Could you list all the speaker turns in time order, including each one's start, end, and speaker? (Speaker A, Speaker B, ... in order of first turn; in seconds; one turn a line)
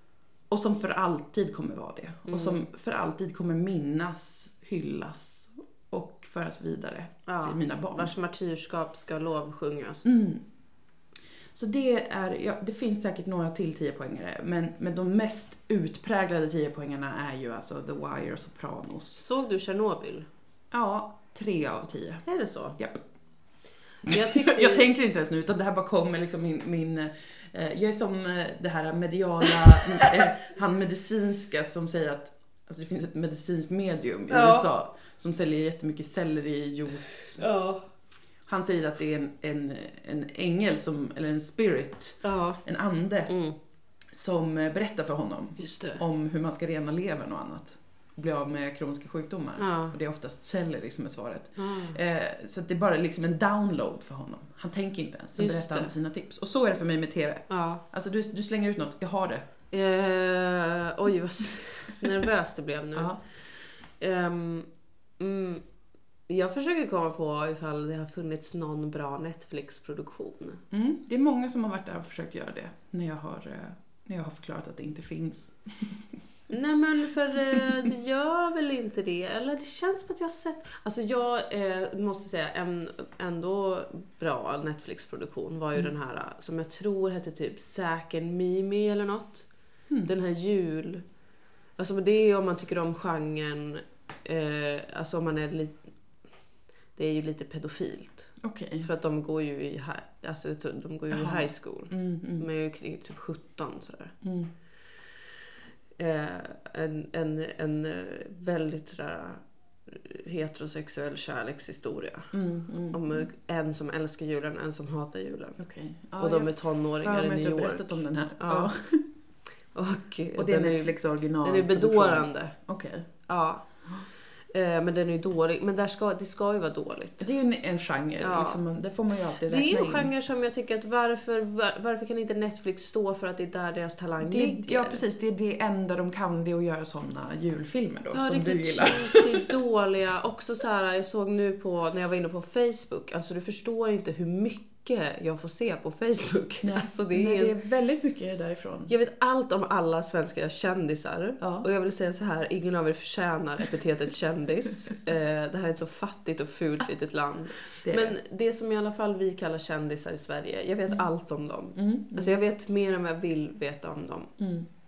Speaker A: 0.5-8.1
Speaker B: 2.3-2.6
Speaker B: 7.3-10.2
Speaker A: 10.1-10.4
Speaker A: 11.5-19.2
Speaker B: 19.2-20.3
Speaker A: 20.7-22.2
Speaker B: 22.3-22.8
Speaker B: 24.0-24.9
Speaker A: 24.1-37.4
Speaker B: 34.3-34.7
Speaker B: 37.4-37.8
Speaker A: 38.5-43.3
Speaker B: 42.2-42.6
Speaker B: 43.3-43.5
Speaker A: 44.1-59.5
Speaker B: 45.6-46.0
Speaker B: 49.6-50.0
Speaker B: 51.6-52.0
Speaker B: 55.4-55.9
Speaker B: 57.5-57.8
Speaker B: 59.7-63.2
Speaker B: 64.0-64.7
Speaker B: 65.2-65.6
Speaker B: 66.3-70.6
Speaker A: 70.7-76.0
Speaker B: 76.5-89.5
Speaker A: 77.5-77.7
Speaker B: 90.0-91.0
Speaker B: 91.8-95.8
Speaker B: 97.0-104.1
Speaker A: 98.4-98.9
Speaker A: 101.1-102.5
Speaker A: 104.2-104.5
Speaker B: 106.0-112.3
Speaker A: 112.3-113.3
Speaker B: 112.9-115.6
Speaker A: 115.6-119.0
Speaker B: 116.2-118.7
Speaker B: 119.7-122.5
Speaker A: 120.4-123.1
Speaker B: 123.3-123.7
Speaker B: 124.5-127.3
Speaker A: 127.2-130.1
Speaker B: 128.2-128.6
Speaker B: 129.4-135.0
Speaker A: 134.2-139.5
Speaker B: 138.1-147.6
Speaker A: 146.6-148.9
Speaker B: 148.9-164.3
Speaker A: 151.4-151.7
Speaker A: 157.8-158.2
Speaker A: 161.7-162.4
Speaker A: 164.4-164.7